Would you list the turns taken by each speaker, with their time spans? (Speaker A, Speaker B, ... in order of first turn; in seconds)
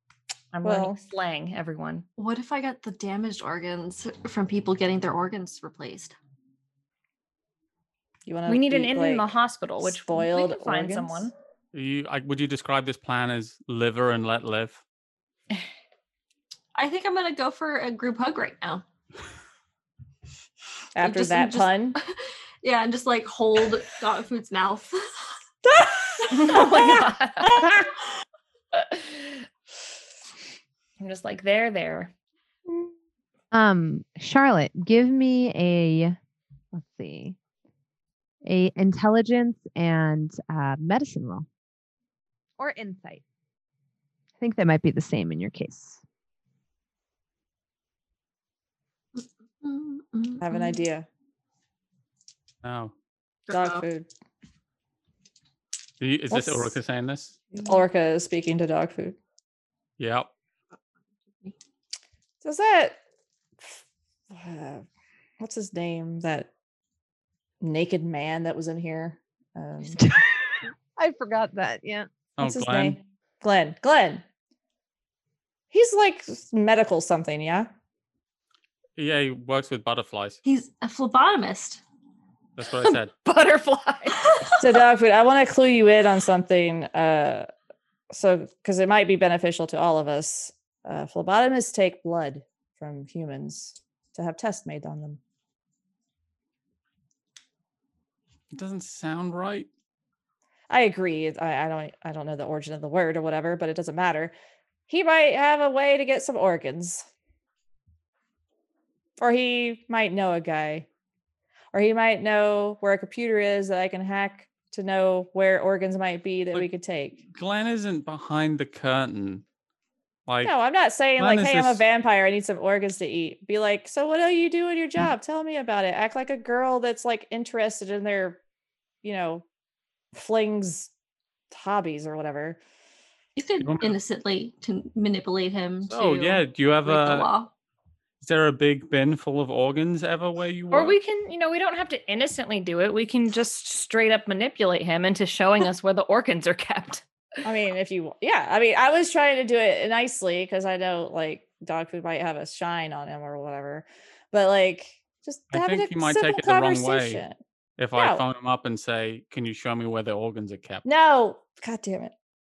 Speaker A: 0.5-2.1, 8.5-11.3, 26.3-27.7, 28.8-29.3, 31.0-32.1, 83.2-84.2, 140.7-147.1
Speaker B: 0.6-1.0, 8.3-9.3, 9.8-11.3, 21.0-22.0, 25.6-27.0, 50.4-51.1, 53.5-54.1, 56.3-56.8, 57.6-59.2, 62.4-63.0, 64.3-64.9, 65.4-66.5, 67.6-70.0, 72.4-74.2, 75.7-77.7, 84.6-87.5, 88.1-95.2, 100.7-104.3, 104.9-107.1, 109.2-110.9, 111.7-117.2, 120.4-128.4, 129.0-129.4, 130.2-130.9, 131.5-132.6, 147.4-157.4, 158.0-158.2, 160.8-162.1
Speaker C: 2.2-6.2, 16.8-18.9, 21.0-25.3, 49.2-50.8, 53.5-53.9, 80.5-81.8, 84.3-84.6, 133.4-137.5
Speaker D: 11.7-14.8, 52.6-52.9, 56.0-57.4, 60.0-60.3, 72.4-73.0, 79.0-80.4, 82.6-83.1, 98.5-99.7, 117.3-119.4, 120.3-120.5, 121.2-121.8, 133.6-133.9, 135.9-137.3, 138.2-141.0, 155.5-157.2, 157.8-160.8
Speaker E: 33.5-36.2, 36.7-37.4, 38.5-41.5, 42.6-43.2, 44.4-46.0, 70.0-70.2, 71.0-72.1